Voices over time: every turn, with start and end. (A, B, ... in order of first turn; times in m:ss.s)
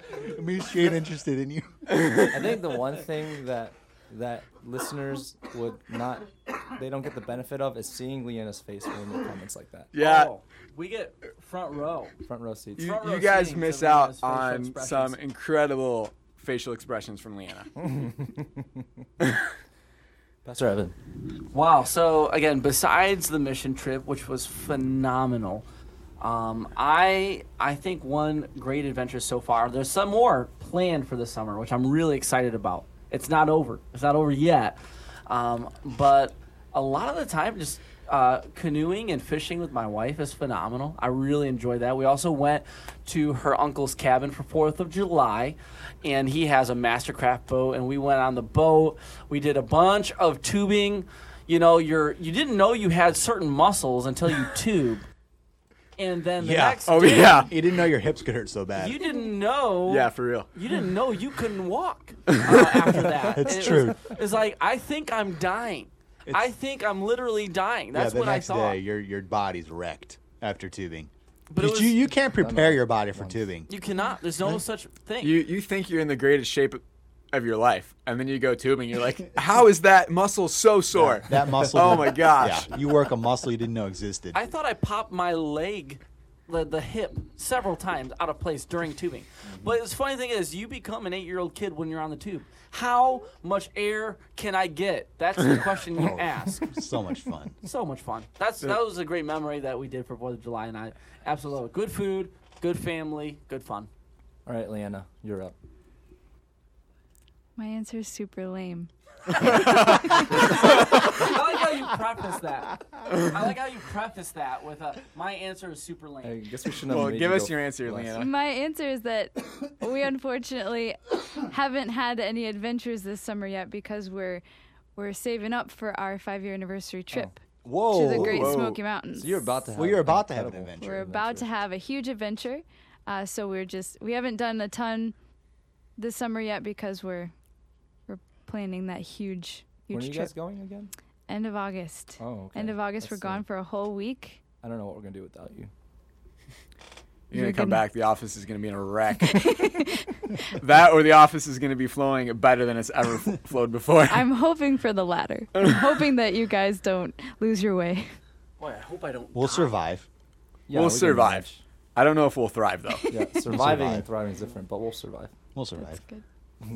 0:00.1-0:01.9 A
0:02.2-0:09.9 B
0:09.9-0:10.3 C
0:10.0-0:12.2 D
0:12.2-0:12.9 B
0:12.8-0:17.7 C
0:12.8-0:15.2 D
0:17.8-0:18.8 B
0:20.4-0:21.0 B
0:21.5-0:25.7 D
0:26.2-0:55.1 D
0:56.0-0:57.5 D
0:56.4-0:59.0 A
0:56.9-0:57.5 C
0:58.8-1:08.8 D
0:59.9-1:00.5 C
1:03.3-1:04.0 A
1:07.9-1:13.7 A
1:11.5-1:12.0 D
1:12.2-1:13.5 B
1:13.7-1:15.4 D
1:15.2-1:22.7 C
1:20.9-1:24.4 A
1:24.3-1:36.7 D
1:36.0-1:37.6 A
1:37.6-1:43.9 D
1:44.5-1:45.6 B
1:47.6-1:50.8 E
1:49.4-1:51.1 C
1:50.5-1:56.4 D
1:56.2-1:58.1 B
1:56.9-1:58.3 C
1:58.1-2:04.4 E
2:05.0-2:09.5 E
2:07.6-2:08.6 A
2:08.2-2:08.8 C
2:09.2-2:11.5 B
2:09.8-2:11.0 A
2:10.8-2:15.2 E
2:16.0-2:17.3 E
2:18.1-2:20.3 E
2:19.9-2:20.9 B
2:21.3-2:24.4 E
2:22.2-2:23.4 B
2:24.6-2:25.7 B
2:27.3-2:29.7 C
2:27.3-2:27.8 E
2:29.2-2:30.5 E
2:30.5-2:34.3 C
2:34.1-2:38.0 E
2:35.6-2:36.0 C
2:38.6-2:39.7 D
2:39.3-2:40.1 A
2:40.7-2:41.6 B
2:40.7-2:43.0 C
2:43.1-2:45.3 B
2:43.4-2:44.1 A
2:45.6-2:46.0 A
2:45.8-2:46.2 E